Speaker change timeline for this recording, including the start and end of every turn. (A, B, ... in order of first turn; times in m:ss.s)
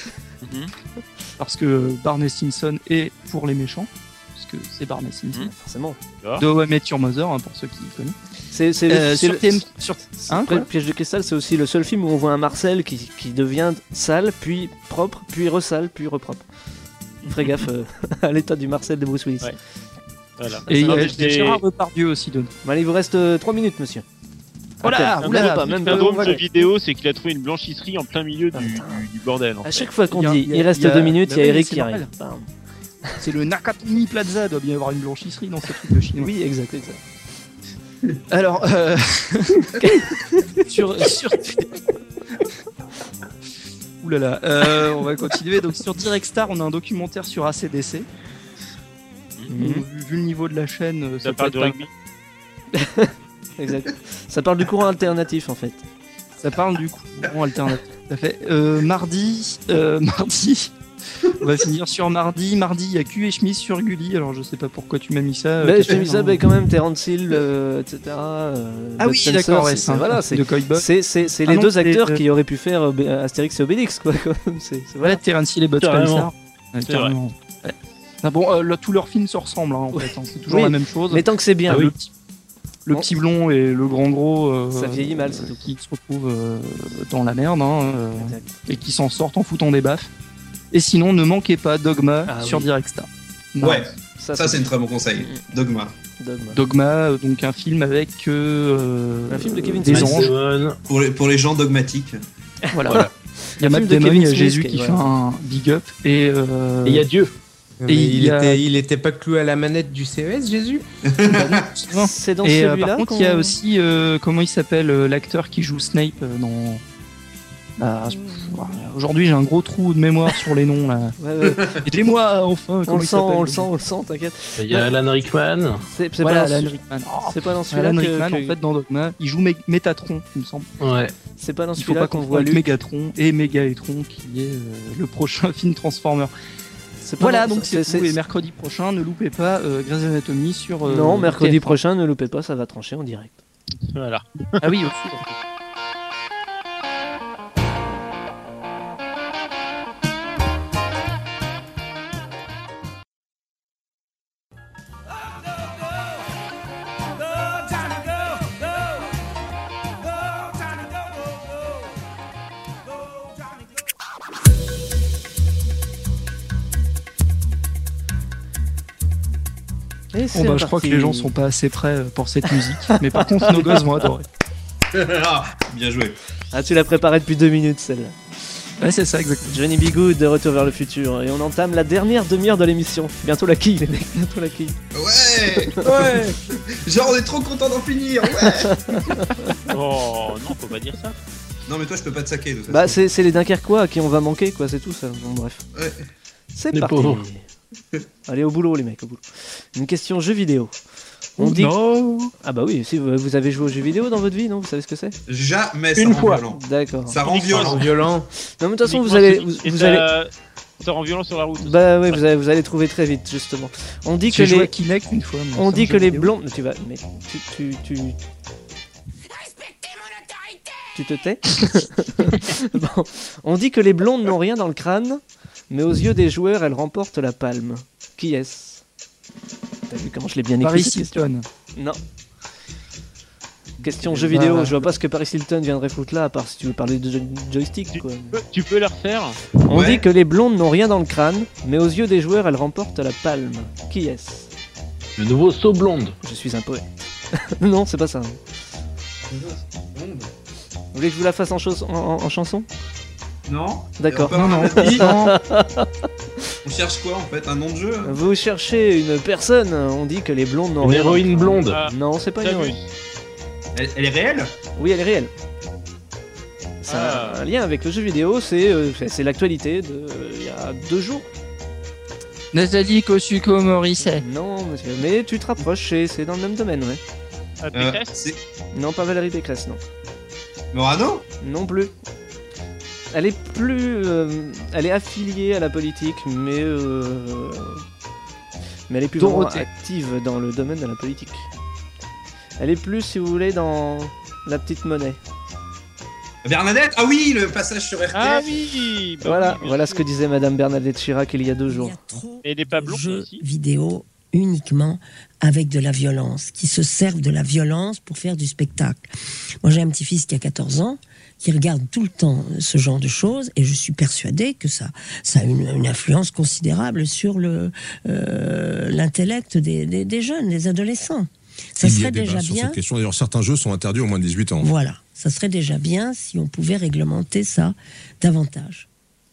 0:00.4-0:00.7 A
0:01.4-0:05.4 B
0:05.4-0:06.0 C
0:06.4-0:08.2 B
0:08.5-0:16.5 C
0:08.9-0:10.7 B
0:17.2-0:17.6 A
0:17.3-0:19.6 C
0:20.4-0:21.6 A
0:20.7-0:21.2 C
0:20.7-0:22.5 B
0:22.6-0:24.1 C
0:24.8-0:26.5 B
0:24.8-0:26.7 C
0:25.1-0:29.9 A
0:28.5-0:29.1 C
0:29.6-0:32.5 C
0:30.0-0:32.1 B
0:33.2-0:36.3 B
0:35.7-0:37.0 C
0:38.3-0:39.7 B
0:39.7-0:40.7 C
0:40.7-0:41.8 B
0:44.0-0:48.1 B
0:44.6-0:45.3 C
0:49.5-0:49.8 C
0:49.6-0:51.8 B
0:51.2-0:51.9 A
0:52.7-0:55.8 C
0:56.4-1:06.4 B
1:05.6-1:15.2 C
1:09.0-1:10.9 B
1:11.4-1:12.2 B
1:15.0-1:22.1 B
1:15.8-1:16.3 D
1:16.9-1:17.2 A
1:19.9-1:21.9 C
1:22.9-1:30.1 B
1:24.7-1:25.6 C
1:28.2-1:28.6 C
1:30.7-1:33.9 B
1:32.3-1:32.7 C
1:33.6-1:36.0 E
1:34.2-1:35.4 C
1:36.2-1:36.6 C
1:36.5-1:40.3 B
1:39.3-1:40.3 C
1:39.9-1:40.8 D
1:40.9-1:42.2 E
1:42.6-1:45.1 C
1:42.7-1:47.1 B
1:46.8-1:47.3 D
1:47.8-1:50.8 F
1:47.9-1:48.6 B
1:51.0-1:51.7 E
1:51.3-1:56.8 B
1:51.9-1:53.6 C
1:57.8-2:01.1 B
2:01.2-2:01.7 C
2:01.7-2:03.7 B
2:02.9-2:04.9 C
2:04.6-2:05.8 D
2:05.9-2:08.6 C
2:06.2-2:10.7 B
2:10.8-2:11.1 D
2:11.4-2:12.6 C
2:11.8-2:16.3 B
2:17.0-2:18.2 C
2:17.2-2:21.8 B
2:20.8-2:23.4 C
2:23.9-2:24.6 A
2:24.6-2:25.2 B
2:50.1-2:51.3 C
2:50.3-2:54.3 B
2:52.9-2:54.0 C
2:54.9-2:56.2 E
2:56.5-2:58.2 C
2:58.8-2:59.6 B
2:59.5-3:04.8 C
3:04.9-3:08.8 E
3:08.6-3:09.6 C
3:09.7-3:11.2 A
3:11.7-3:13.0 E
3:12.7-3:15.6 C
3:15.8-3:16.0 E
3:16.5-3:17.5 C
3:16.7-3:17.3 D
3:18.3-3:20.8 C
3:21.4-3:21.8 C
3:21.4-3:22.3 D
3:22.4-3:25.2 C
3:25.3-3:27.9 E
3:26.0-3:26.4 D
3:26.5-3:27.2 C
3:27.2-3:27.8 A
3:27.5-3:28.3 F
3:28.6-3:30.1 C
3:28.8-3:32.2 A
3:31.6-3:34.7 C
3:34.3-3:36.3 B
3:35.6-3:38.2 C
3:41.0-3:48.8 C
3:49.9-3:52.0 C
3:50.6-3:51.5 B
3:53.8-3:58.4 C
3:54.3-3:54.9 B
3:58.3-3:59.4 A
3:59.6-4:04.5 C
3:59.7-4:00.1 E
4:05.2-4:06.2 D
4:06.2-4:08.4 C
4:09.3-4:10.3 E
4:10.9-4:12.7 C
4:13.5-4:15.1 E
4:14.0-4:15.9 C
4:14.3-4:15.4 B
4:16.6-4:18.2 E
4:18.0-4:22.8 C
4:20.8-4:21.8 D
4:21.6-4:22.9 A
4:23.7-4:24.5 E
4:24.8-4:25.3 C
4:26.8-4:31.3 C
4:26.9-4:27.4 A
4:32.5-4:34.2 B
4:34.0-4:37.0 C
4:37.6-4:38.1 A
4:37.7-4:38.4 E
4:38.7-4:39.8 C
4:40.7-4:41.3 E
4:41.4-4:41.9 C
4:43.1-4:47.8 C
4:48.9-4:51.5 C
4:49.2-4:49.7 B
4:52.6-4:55.2 C
4:56.4-4:58.6 E
4:58.1-5:00.0 A
4:59.2-5:02.0 C
5:01.7-5:09.1 G
5:02.4-5:03.4 A
5:09.6-5:22.8 G
5:21.8-5:24.7 H
5:24.6-5:28.9 G